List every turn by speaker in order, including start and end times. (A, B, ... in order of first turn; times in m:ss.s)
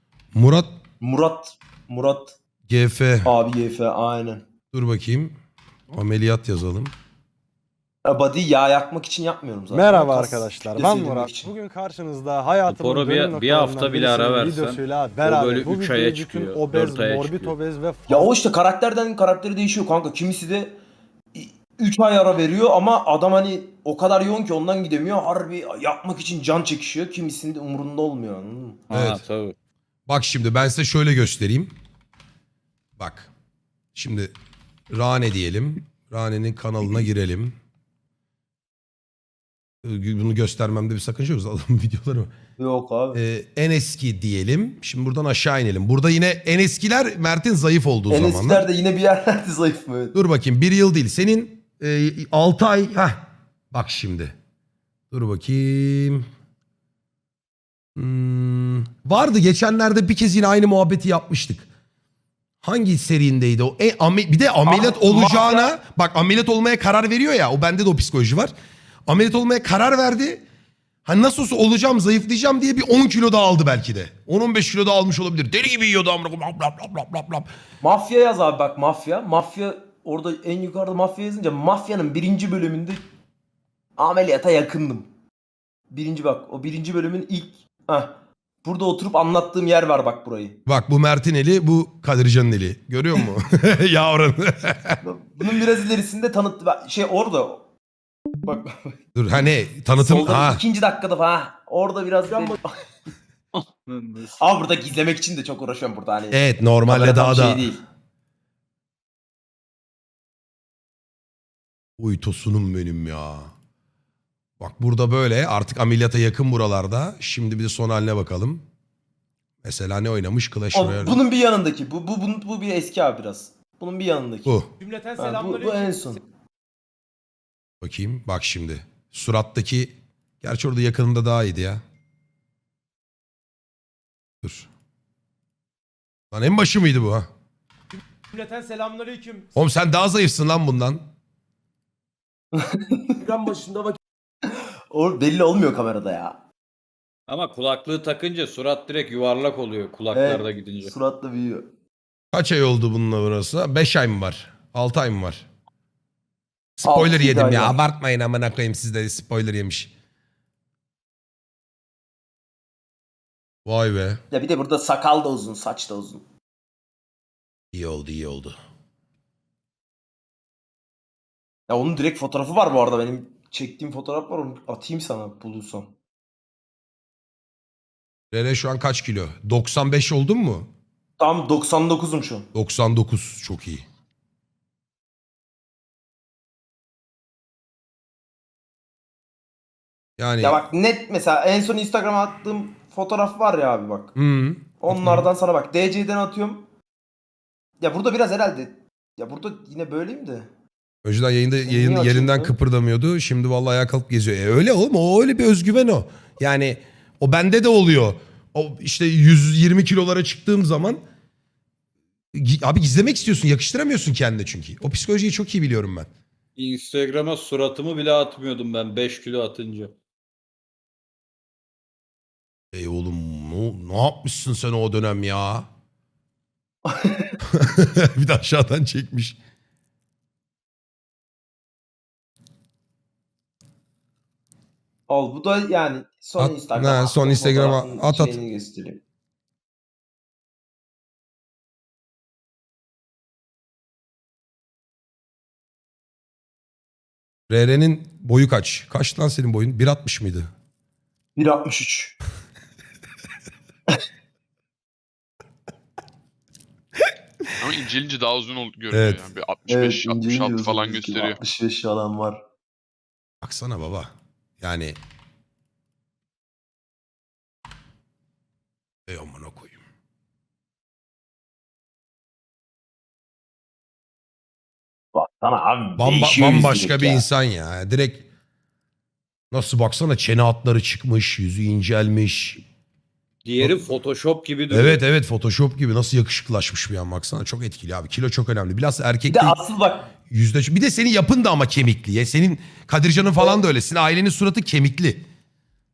0:00.3-0:00.7 A
0:01.0-0:02.4 B
0:02.7-0:03.3 A
0:03.2-0:04.4 B
0:04.7-0:05.3 A
0:05.9-0:06.9 A
0:08.0-0:11.5 B
0:09.7-0:18.3 C
0:12.7-0:17.6 D
0:18.1-0:20.8 B
0:21.3-0:28.8 B
0:28.9-0:29.6 D
0:28.9-0:29.2 A
0:30.1-0:31.7 A
0:33.0-0:33.3 A
0:34.0-0:34.3 A
0:34.9-0:37.5 A
0:39.8-0:42.3 A
0:42.6-0:43.2 B
0:43.1-0:48.6 A
0:48.1-0:50.2 B
0:50.1-0:54.4 A
0:55.1-0:56.3 A
0:58.0-1:01.7 A
1:02.6-1:08.5 A
1:04.7-1:05.7 B
1:09.1-1:10.4 A
1:11.0-1:17.5 A
1:17.8-1:23.0 B
1:24.0-1:25.1 B
1:25.9-1:30.6 B
1:30.7-1:35.0 A
1:35.0-1:37.7 B
1:38.4-1:39.0 B
1:39.2-1:40.6 A
1:40.0-1:42.6 B
1:43.5-1:44.4 D
1:44.4-1:47.8 B
1:46.3-1:47.7 A
1:52.0-1:53.5 A
1:54.6-1:58.6 A
1:59.6-2:01.2 A
2:00.7-2:04.6 B
2:04.5-2:04.7 A
2:04.8-2:05.1 E
2:05.2-2:06.2 B
2:07.8-2:11.8 A
2:14.4-2:14.7 A
2:16.3-2:17.3 A
2:18.3-2:19.5 B
2:19.6-2:21.0 A
2:22.5-2:26.4 B
2:27.3-2:30.9 D
2:30.1-2:31.7 B
2:32.3-2:35.5 A
2:36.8-2:39.9 A
2:36.8-2:37.8 B
2:43.6-2:44.2 A
2:44.3-2:46.2 B
2:47.7-2:48.6 A
2:51.7-2:56.0 B
2:58.3-3:00.7 A
3:01.2-3:02.5 B
3:02.5-3:03.9 A
3:10.2-3:10.6 A
3:10.4-3:14.2 B
3:14.2-3:15.3 A
3:14.8-3:16.7 B
3:17.8-3:20.5 B
3:21.0-3:31.0 A
3:21.6-3:22.6 B
3:32.3-3:36.1 A
3:36.6-3:39.9 D
3:42.7-3:45.7 A
3:46.9-3:47.4 B
3:47.5-3:49.4 A
3:55.1-3:59.0 B
3:56.4-3:58.4 A
4:07.5-4:10.5 A
4:11.4-4:12.2 B
4:17.6-4:21.4 E
4:18.9-4:19.2 A
4:19.7-4:22.4 B
4:23.4-4:25.0 A
4:29.1-4:29.8 A
4:35.1-4:37.2 B
4:36.0-4:38.2 A
4:39.5-4:42.6 A
4:43.4-4:45.0 D
4:44.7-4:49.6 A
4:49.3-4:50.1 B
4:50.3-4:55.2 A